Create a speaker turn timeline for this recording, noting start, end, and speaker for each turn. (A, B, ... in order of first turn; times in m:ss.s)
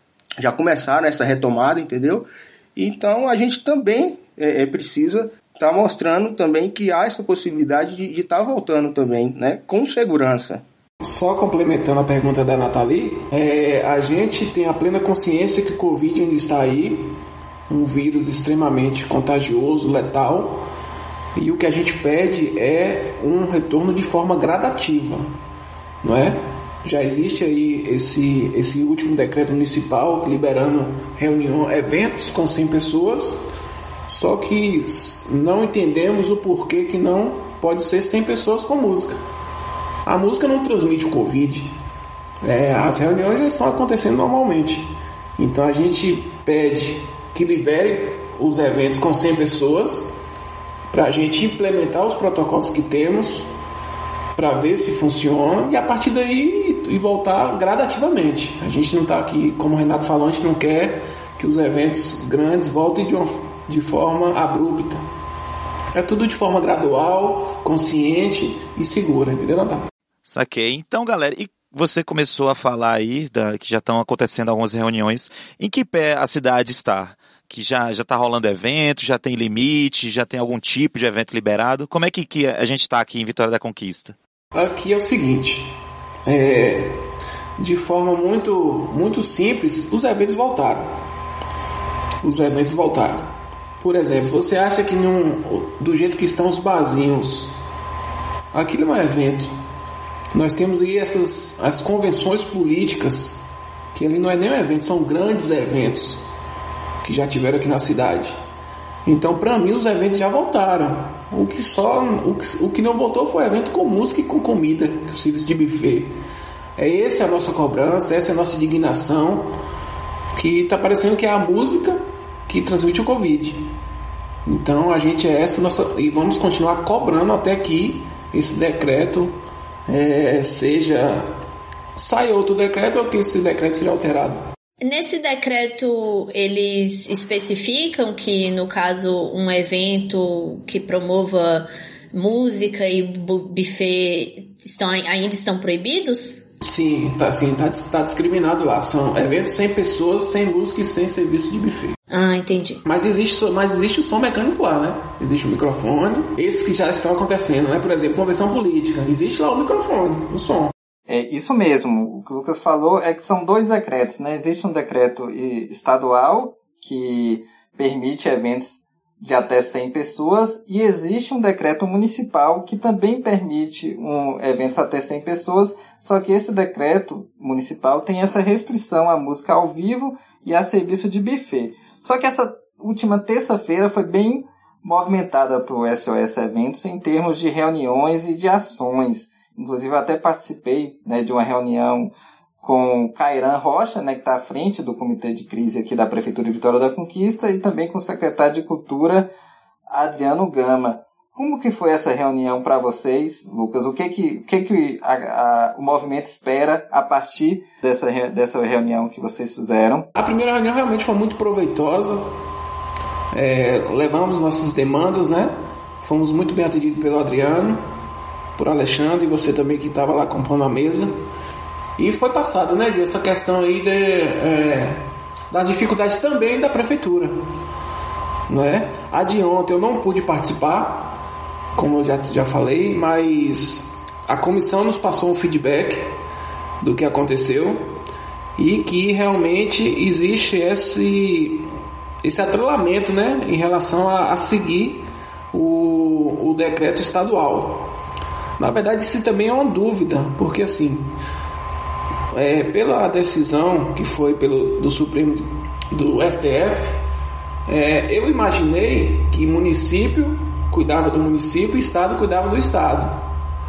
0:00.4-0:10.6 A
0:11.0-0:17.2 B
0:17.7-0:20.6 B
0:21.4-0:25.3 B
0:26.0-0:33.4 B
0:34.1-0:39.1 B
0:40.0-0:41.7 B
0:42.4-0:50.1 B
0:50.9-0:53.5 B
0:54.3-1:05.0 B
1:05.9-1:09.9 B
1:10.2-1:24.2 C
1:24.5-1:25.7 B
1:26.2-1:27.0 B
1:27.6-1:31.0 B
1:32.2-1:37.5 B
1:38.5-1:39.5 B
1:40.3-1:43.4 B
1:43.9-1:46.2 B
1:47.0-1:48.4 B
1:49.0-1:56.1 B
1:56.8-1:59.5 B
2:00.4-2:03.7 B
2:04.4-2:11.3 B
2:12.0-2:14.4 B
2:14.8-2:26.4 D
2:26.6-2:32.0 B
2:32.1-2:32.8 D
2:32.8-2:40.7 B
2:41.1-3:19.3 E
3:19.9-3:30.1 E
3:30.1-3:32.3 B
3:33.3-3:37.8 B
3:38.6-3:41.2 B
3:42.0-3:47.4 B
3:48.5-3:51.2 B
3:51.7-3:56.1 B
3:56.8-3:57.9 B
3:58.6-4:01.7 B
4:02.2-4:07.9 B
4:08.6-4:11.1 B
4:12.3-4:17.0 B
4:17.6-4:23.3 B